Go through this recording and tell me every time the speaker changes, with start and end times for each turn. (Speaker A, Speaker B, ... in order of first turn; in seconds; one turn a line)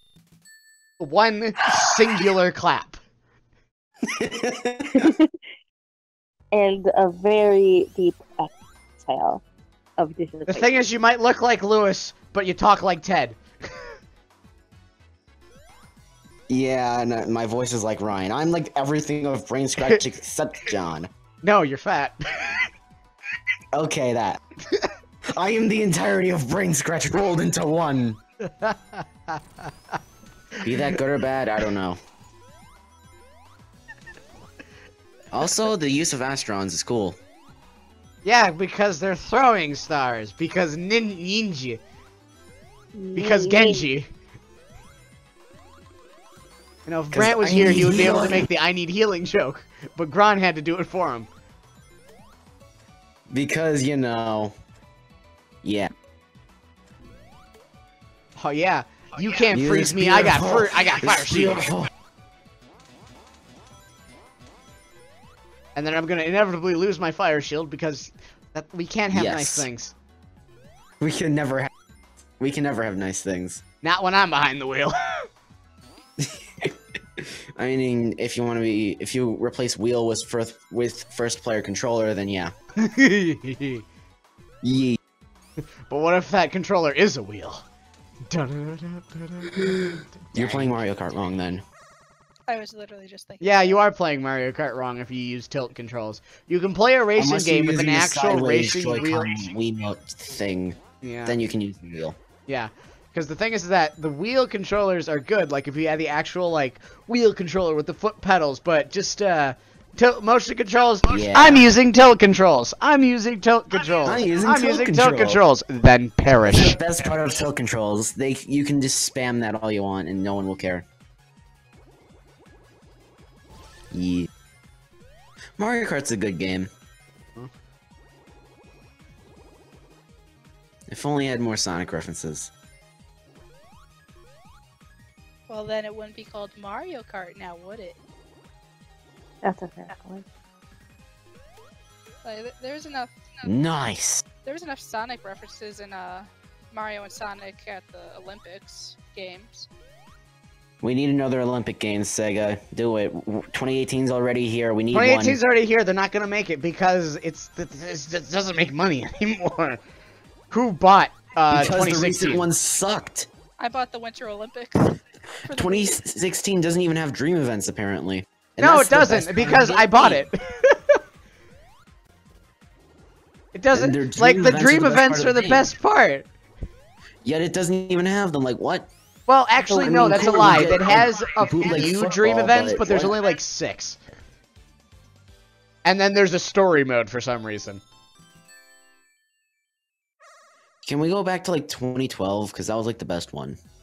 Speaker A: 1.0-3.0
Speaker B: 4.0-5.1
Speaker C: 4.9-5.3
Speaker C: 6.5-9.4
Speaker C: 10.0-10.7
Speaker A: 10.5-13.9
Speaker B: 16.5-21.1
Speaker A: 21.4-22.6
Speaker B: 23.7-24.4
Speaker B: 25.3-28.2
Speaker A: 28.4-29.4
Speaker B: 30.6-32.0
Speaker B: 35.3-37.2
Speaker A: 38.2-41.8
Speaker C: 42.9-43.9
Speaker A: 43.1-44.1
Speaker A: 46.9-51.3
Speaker B: 47.1-48.5
Speaker B: 53.3-54.5
Speaker B: 55.6-55.9
Speaker A: 58.4-61.7
Speaker B: 59.5-61.9
Speaker A: 65.8-69.9
Speaker B: 69.1-69.7
Speaker B: 71.0-71.7
Speaker B: 72.4-73.6
Speaker A: 73.8-75.3
Speaker B: 76.2-82.5
Speaker A: 82.8-83.8
Speaker B: 84.6-85.0
Speaker A: 85.9-87.6
Speaker A: 88.3-90.8
Speaker B: 90.3-91.6
Speaker D: 92.5-93.8
Speaker A: 93.4-99.5
Speaker B: 97.2-102.2
Speaker A: 101.0-101.4
Speaker A: 102.5-116.8
Speaker B: 111.1-111.7
Speaker B: 114.0-115.4
Speaker B: 116.4-120.8
Speaker B: 123.9-124.3
Speaker B: 125.6-126.7
Speaker B: 130.9-132.5
Speaker D: 135.5-138.0
Speaker C: 139.4-140.2
Speaker D: 142.2-143.4
Speaker B: 143.4-144.2
Speaker D: 144.4-149.7
Speaker B: 150.8-155.4
Speaker A: 154.9-159.8
Speaker A: 160.5-162.5
Speaker B: 161.5-163.3
Speaker D: 163.6-166.0
Speaker B: 165.5-170.2
Speaker A: 168.6-171.0
Speaker A: 173.5-176.3
Speaker B: 173.7-175.7
Speaker B: 177.2-178.9
Speaker A: 179.3-184.0
Speaker C: 179.7-180.6
Speaker B: 179.7-183.2
Speaker A: 185.8-187.8
Speaker B: 190.8-193.6